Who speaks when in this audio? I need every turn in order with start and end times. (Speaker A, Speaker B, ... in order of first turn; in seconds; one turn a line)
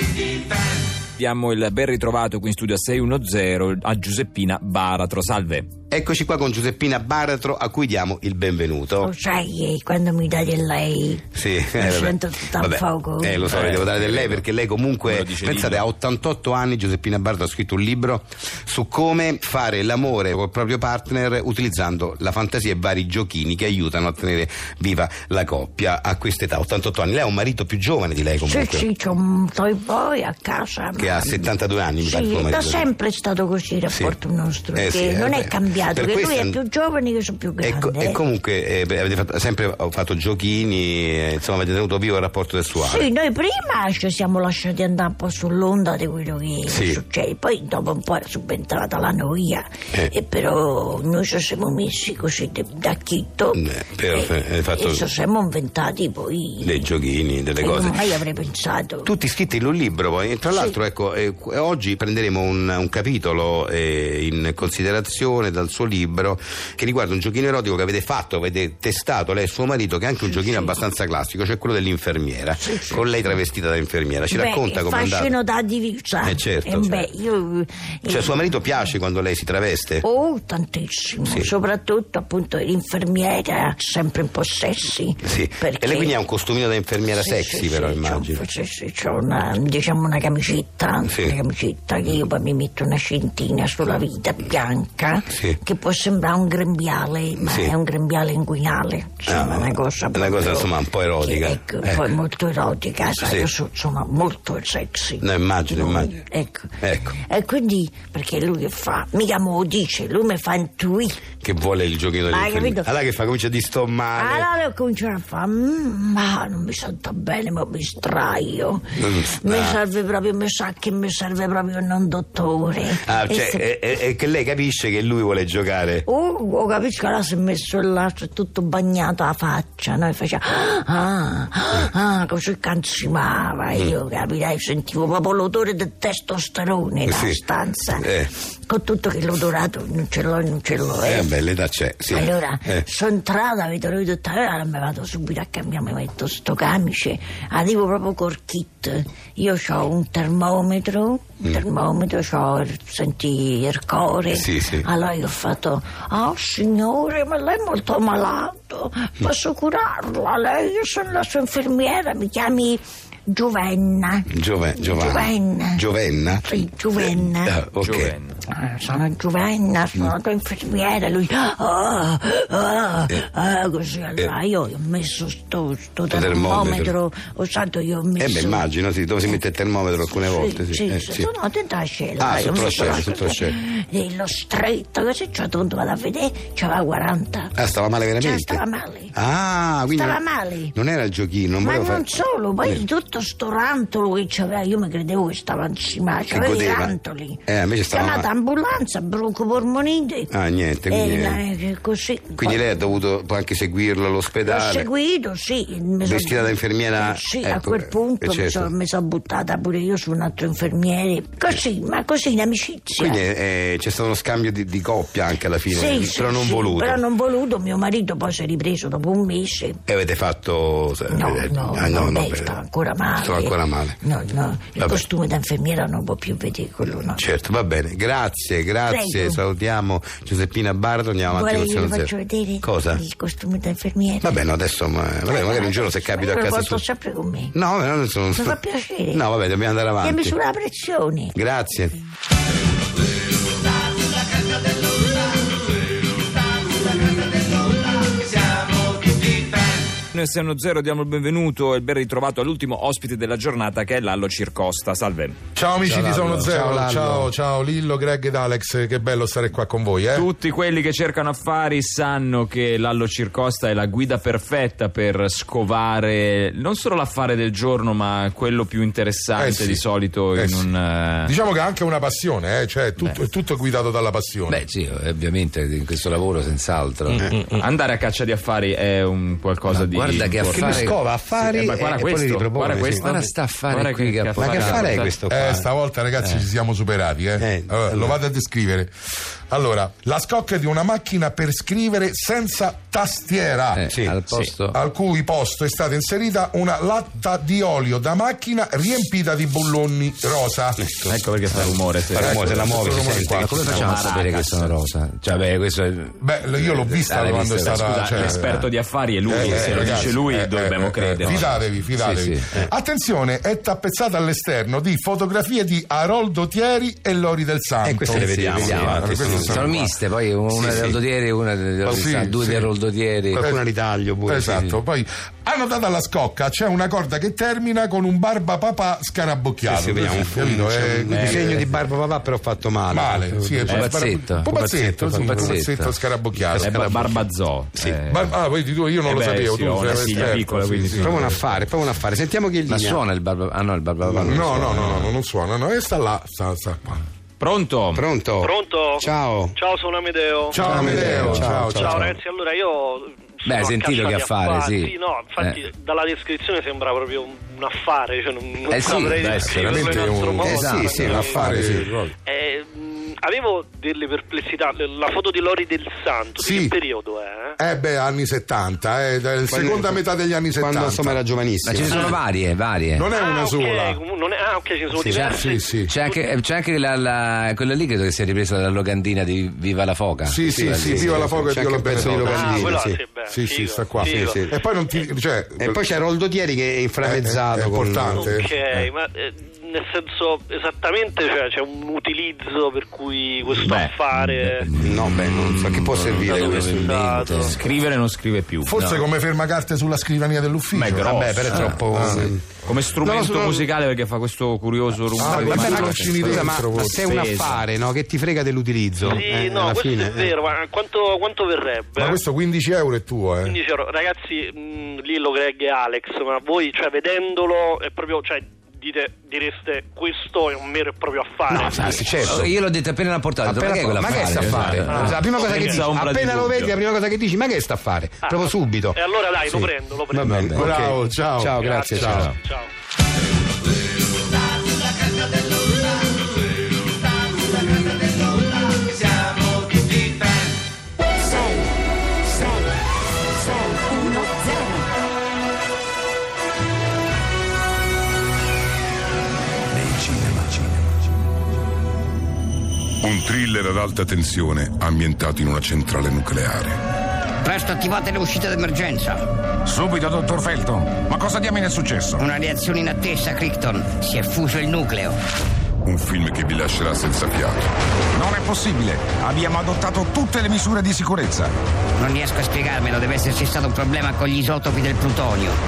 Speaker A: 1.1-5.7
Speaker B: 5.9-9.1
Speaker C: 9.0-13.6
Speaker B: 11.3-28.9
Speaker A: 13.5-14.4
Speaker A: 15.0-15.9
Speaker C: 28.4-38.2
Speaker B: 31.0-32.9
Speaker B: 34.7-36.6
Speaker B: 37.6-43.1
Speaker C: 42.8-56.9
Speaker B: 46.7-47.0
Speaker B: 53.5-55.1
Speaker B: 56.6-58.1
Speaker C: 57.6-59.1
Speaker B: 59.0-75.3
Speaker C: 60.5-60.8
Speaker C: 70.2-70.8
Speaker C: 72.6-73.2
Speaker C: 74.3-78.6
Speaker B: 76.2-77.1
Speaker B: 78.1-80.0
Speaker C: 80.0-86.1
Speaker B: 81.3-81.5
Speaker B: 85.2-88.4
Speaker C: 87.2-111.2
Speaker B: 91.0-91.4
Speaker B: 95.3-95.6
Speaker B: 97.4-97.7
Speaker B: 99.3-102.0
Speaker B: 103.2-103.5
Speaker B: 105.2-106.1
Speaker B: 106.8-107.1
Speaker B: 111.4-114.5
Speaker C: 112.3-112.9
Speaker C: 114.2-123.6
Speaker B: 119.0-119.8
Speaker B: 123.0-126.0
Speaker C: 126.0-138.1
Speaker B: 137.1-137.4
Speaker B: 138.0-138.3
Speaker C: 138.7-141.3
Speaker B: 141.0-142.8
Speaker C: 142.1-165.8
Speaker B: 154.3-154.9
Speaker B: 164.3-166.5
Speaker C: 166.3-167.6
Speaker B: 167.0-168.1
Speaker A: 167.8-168.4
Speaker C: 168.5-178.6
Speaker B: 176.1-176.9
Speaker B: 178.2-181.3
Speaker C: 180.1-187.5
Speaker B: 182.2-183.6
Speaker B: 187.6-188.6
Speaker C: 188.2-189.1
Speaker B: 189.1-192.1
Speaker C: 189.9-190.7
Speaker C: 191.6-200.3
Speaker B: 196.3-196.9
Speaker B: 197.5-198.3
Speaker B: 200.3-201.4
Speaker C: 200.9-202.6
Speaker B: 202.4-204.9
Speaker C: 204.4-213.2
Speaker B: 206.0-208.7
Speaker B: 212.9-217.0
Speaker C: 215.7-219.8
Speaker B: 219.9-222.6
Speaker C: 221.1-227.2
Speaker B: 223.2-224.0
Speaker B: 224.8-225.0
Speaker B: 227.1-232.1
Speaker C: 228.9-229.4
Speaker C: 231.3-234.3
Speaker B: 232.6-233.0
Speaker B: 234.2-236.8
Speaker C: 235.3-237.5
Speaker B: 237.5-238.6
Speaker C: 238.3-239.2
Speaker B: 239.1-240.4
Speaker C: 240.0-241.3
Speaker B: 241.3-241.9
Speaker A: 250.1-255.4
Speaker D: 255.6-260.3
Speaker E: 255.8-257.3
Speaker A: 260.1-271.3
Speaker D: 269.4-270.6
Speaker D: 271.2-274.6
Speaker E: 274.5-277.2
Speaker A: 277.5-280.8
Speaker E: 279.7-280.9
Speaker B: 280.4-283.2
Speaker A: 281.4-285.1
Speaker E: 282.9-285.1
Speaker B: 284.4-285.7
Speaker D: 285.3-288.9
Speaker B: 287.4-288.2
Speaker D: 289.5-293.9
Speaker E: 293.7-294.8
Speaker B: 293.9-294.1
Speaker D: 294.7-301.1
Speaker B: 300.8-303.9
Speaker A: 301.1-302.4
Speaker D: 302.1-303.9
Speaker C: 302.4-302.9
Speaker E: 303.3-308.7
Speaker A: 303.9-304.9
Speaker D: 306.2-308.6
Speaker A: 307.9-311.6
Speaker D: 309.3-319.9
Speaker B: 309.4-310.1
Speaker E: 312.0-312.6
Speaker B: 317.8-319.8
Speaker E: 318.1-323.4
Speaker B: 320.5-321.0
Speaker D: 321.9-322.7
Speaker B: 323.3-324.6
Speaker D: 324.3-331.7
Speaker B: 329.6-333.9
Speaker D: 332.9-337.2
Speaker E: 333.7-336.9
Speaker B: 335.2-335.5
Speaker A: 336.6-338.3
Speaker D: 338.1-341.4
Speaker A: 339.0-341.2
Speaker B: 341.0-343.0
Speaker E: 342.7-345.1
Speaker B: 344.0-344.9
Speaker D: 344.2-347.0
Speaker A: 347.4-348.0
Speaker B: 347.9-349.6
Speaker F: 348.4-350.6
Speaker D: 350.5-352.1
Speaker B: 350.5-352.1
Speaker E: 350.7-351.6
Speaker F: 351.7-361.4
Speaker E: 353.4-355.6
Speaker E: 358.7-361.8
Speaker D: 359.5-362.1
Speaker B: 360.4-361.9
Speaker F: 362.3-367.6
Speaker D: 366.4-366.8
Speaker D: 367.6-371.2
Speaker B: 369.5-372.1
Speaker E: 371.6-373.1
Speaker D: 371.8-372.2
Speaker D: 372.9-374.0
Speaker F: 373.1-376.2
Speaker E: 375.0-381.2
Speaker D: 375.1-375.9
Speaker D: 380.2-382.8
Speaker B: 380.5-383.0
Speaker F: 382.2-384.4
Speaker D: 383.3-385.8
Speaker B: 384.0-384.6
Speaker B: 385.6-388.4
Speaker D: 387.0-388.6
Speaker F: 388.1-394.7
Speaker A: 393.6-393.9
Speaker E: 394.7-397.6
Speaker B: 394.8-397.1
Speaker F: 396.2-397.6
Speaker A: 397.4-399.0
Speaker D: 398.6-402.3
Speaker A: 400.7-401.3
Speaker B: 401.1-402.4
Speaker C: 401.4-401.8
Speaker A: 402.6-406.4
Speaker B: 403.0-403.6
Speaker D: 405.1-407.2
Speaker B: 405.2-410.4
Speaker C: 405.4-406.5
Speaker A: 407.0-407.6
Speaker F: 409.0-412.2
Speaker D: 412.0-413.6
Speaker F: 413.4-422.3
Speaker B: 421.5-422.5
Speaker E: 421.6-425.1
Speaker B: 423.4-432.3
Speaker C: 424.4-425.6
Speaker F: 424.9-425.9
Speaker A: 425.6-426.7
Speaker F: 428.3-430.5
Speaker D: 430.5-432.3
Speaker F: 431.6-432.7
Speaker G: 453.0-456.8
Speaker H: 457.4-459.2
Speaker I: 459.6-462.2
Speaker H: 462.2-465.2
Speaker G: 465.9-467.7
Speaker I: 468.1-471.5
Speaker H: 472.0-475.6